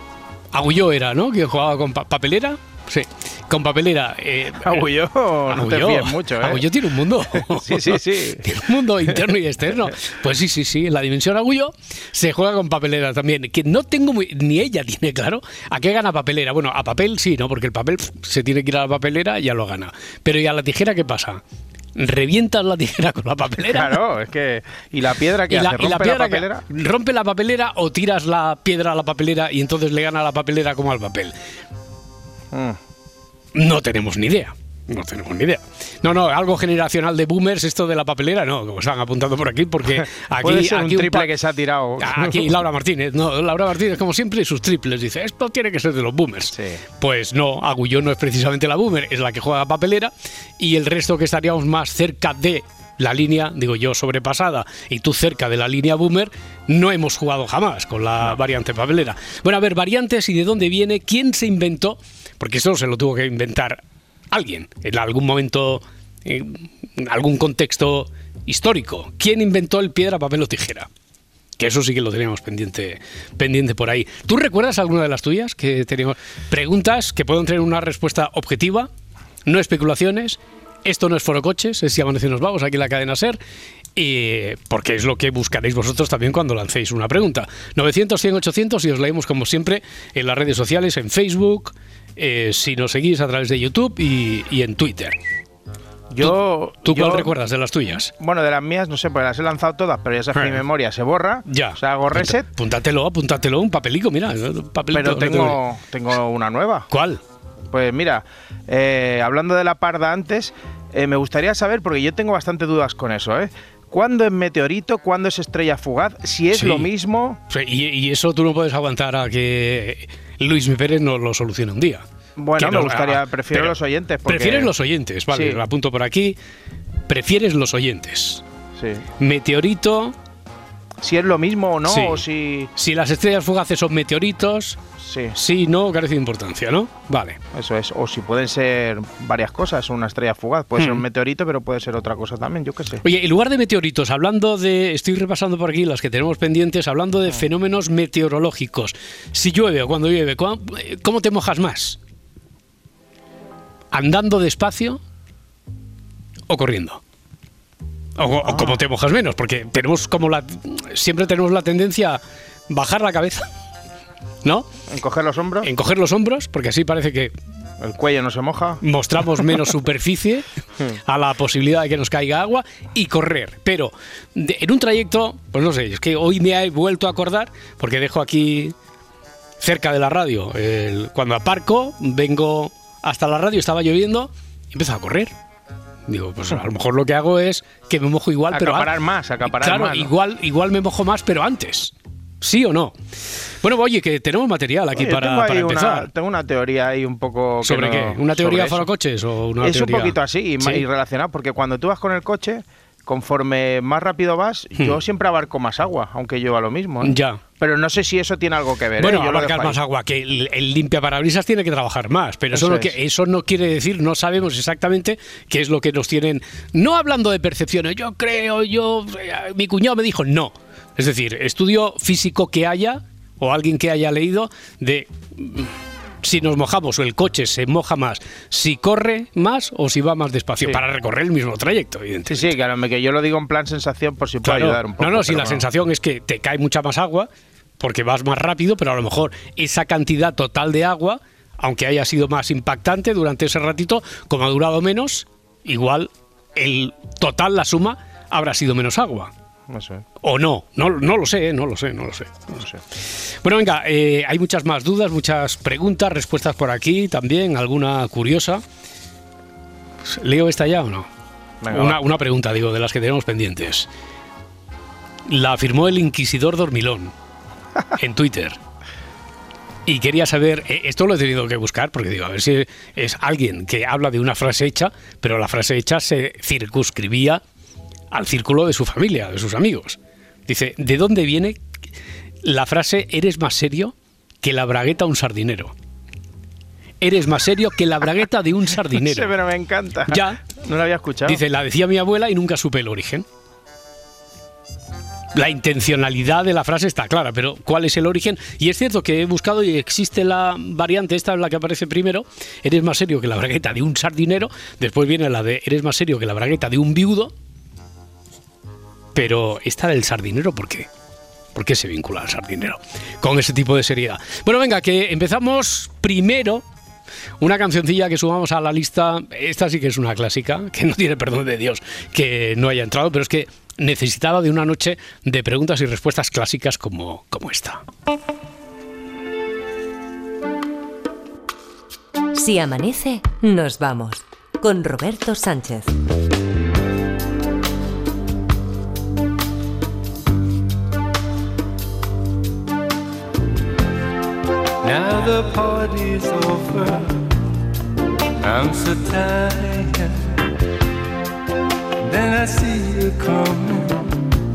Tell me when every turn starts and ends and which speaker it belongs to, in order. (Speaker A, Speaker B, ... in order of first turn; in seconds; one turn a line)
Speaker A: 0.5-4.8
Speaker B: 4.6-6.6
Speaker A: 5.5-21.4
Speaker B: 7.3-9.1
Speaker A: 21.9-24.0
Speaker B: 23.7-26.6
Speaker A: 25.5-31.3
Speaker B: 32.5-32.8
Speaker A: 33.5-41.3
Speaker B: 40.4-42.5
Speaker A: 42.0-70.9
Speaker B: 46.5-46.8
Speaker A: 71.6-78.9
Speaker A: 79.4-83.4
Speaker A: 84.0-95.2
Speaker B: 96.1-97.3
Speaker A: 96.2-98.1
Speaker B: 98.2-102.5
Speaker A: 100.3-100.6
Speaker A: 101.5-105.6
Speaker B: 104.9-106.9
Speaker A: 106.9-107.2
Speaker B: 107.7-117.4
Speaker A: 116.5-116.9
Speaker A: 117.5-122.0
Speaker B: 122.4-124.7
Speaker A: 122.6-123.7
Speaker A: 124.2-126.3
Speaker B: 125.3-125.6
Speaker A: 127.1-128.4
Speaker B: 128.8-129.0
Speaker A: 129.2-130.1
Speaker B: 131.0-132.7
Speaker A: 131.8-132.2
Speaker A: 132.8-134.8
Speaker B: 135.0-135.3
Speaker A: 135.3-137.4
Speaker B: 137.5-143.0
Speaker A: 140.8-141.0
Speaker A: 143.0-152.0
Speaker A: 153.9-155.0
Speaker A: 156.5-157.0
Speaker A: 158.2-163.4
Speaker B: 158.4-158.8
Speaker B: 164.9-165.7
Speaker A: 165.6-167.3
Speaker B: 167.8-168.8
Speaker A: 168.8-170.5
Speaker A: 171.1-178.7
Speaker A: 179.6-185.3
Speaker A: 186.1-188.9
Speaker B: 188.5-190.1
Speaker A: 189.4-192.9
Speaker A: 193.6-196.1
Speaker B: 194.9-198.9
Speaker A: 197.6-200.8
Speaker B: 199.6-209.8
Speaker A: 207.0-207.4
Speaker A: 209.0-232.5
Speaker B: 212.5-213.0
Speaker B: 232.3-235.6
Speaker A: 234.4-237.3
Speaker A: 237.8-249.3
Speaker B: 249.7-250.0
Speaker A: 250.2-258.6
Speaker A: 260.0-261.1
Speaker B: 261.6-262.0
Speaker A: 261.7-263.9
Speaker A: 265.3-267.1
Speaker A: 267.9-268.6
Speaker A: 269.9-277.4
Speaker A: 278.1-281.6
Speaker A: 282.4-285.7
Speaker A: 287.0-289.3
Speaker B: 288.9-291.4
Speaker A: 290.1-290.4
Speaker A: 291.2-293.2
Speaker A: 295.3-307.3
Speaker A: 309.1-310.9
Speaker A: 311.5-316.6
Speaker A: 317.4-327.8
Speaker C: 332.3-335.9
Speaker D: 344.8-347.4
Speaker D: 348.4-350.4
Speaker D: 352.0-354.2